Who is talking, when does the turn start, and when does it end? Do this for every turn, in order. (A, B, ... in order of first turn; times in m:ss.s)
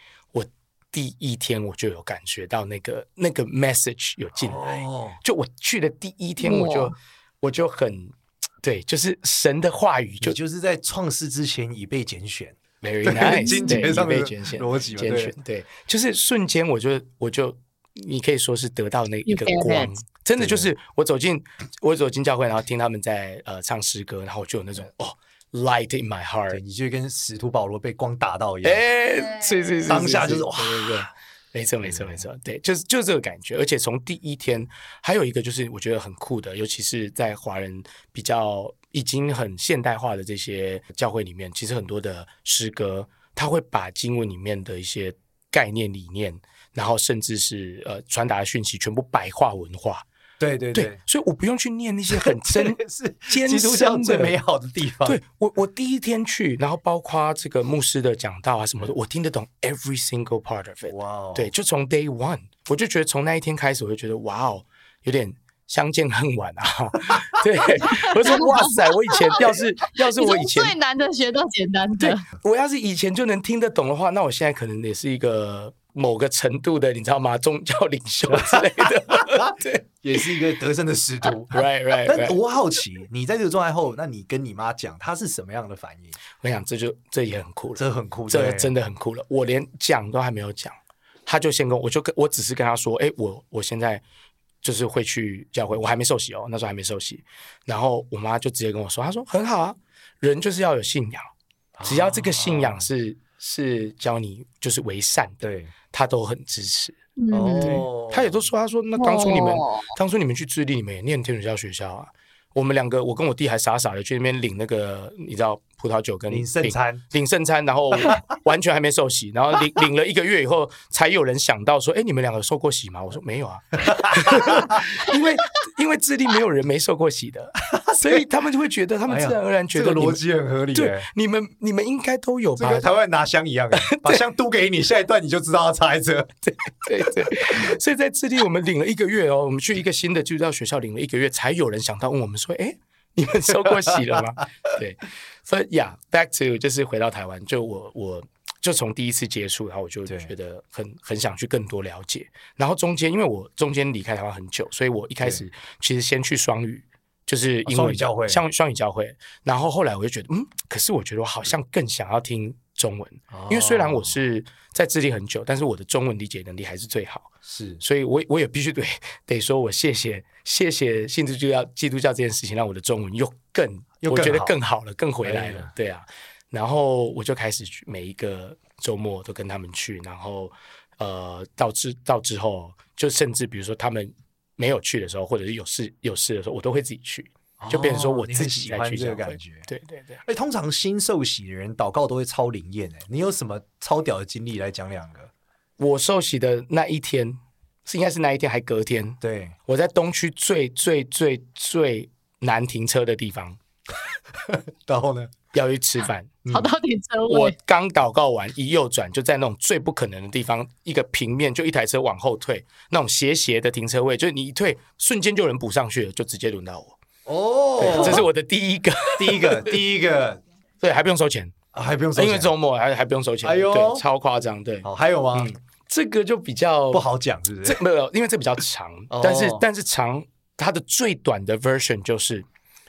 0:00.3-0:10.4 A
0:04.4-0:05.2 B
0:06.4-0:06.9 C
0:10.2-0:15.4 B
0:12.8-0:26.6 A
0:19.2-0:19.9 C
0:20.4-0:20.7 B
0:26.5-0:28.8 B
0:28.6-0:50.0 A
0:29.9-0:31.0 B
0:31.8-0:32.2 B
0:50.4-0:51.0 B
0:50.7-0:54.4 A
0:52.1-0:55.2 B
0:55.0-1:10.7 A
1:00.9-1:01.5 B
1:07.9-1:12.2 C
1:12.0-1:20.2 A
1:18.3-1:26.2 B
1:21.5-1:22.4 A
1:26.4-1:34.0 A
1:27.8-1:28.7 B
1:34.6-1:41.3 A
1:41.8-1:42.9 B
1:41.8-2:10.2 A
1:45.4-1:45.7 B
1:47.2-1:47.8 C
1:47.3-1:48.4 B
1:49.0-1:49.9 C
1:56.3-1:57.0 B
2:03.8-2:04.8 B
2:07.7-2:08.2 B
2:09.1-2:11.1 B
2:10.7-2:12.9 A
2:12.6-2:16.3 B
2:13.7-2:14.2 A
2:16.5-3:10.2 A
2:17.4-2:17.7 B
2:23.8-2:24.2 B
2:30.1-2:30.3 B
2:37.6-2:38.4 B
2:43.3-2:44.2 B
2:47.4-2:47.8 B
2:54.0-2:54.6 B
2:55.2-2:55.7 B
3:07.6-3:09.7 B
3:10.2-3:15.3 B
3:15.8-3:23.6 A
3:19.2-3:19.6 B
3:24.5-3:25.3 B
3:25.5-3:26.4 A
3:26.4-3:26.7 B
3:26.5-3:27.5 C
3:27.3-3:37.0 A
3:37.2-3:38.3 B
3:37.8-3:39.8 A
3:39.2-3:40.4 B
3:40.8-3:41.5 A
3:41.7-3:42.5 B
3:42.2-3:47.0 A
3:43.4-3:44.0 B
3:44.8-3:45.5 B
3:46.9-3:47.8 B
3:47.6-3:52.4 A
3:49.1-3:49.6 B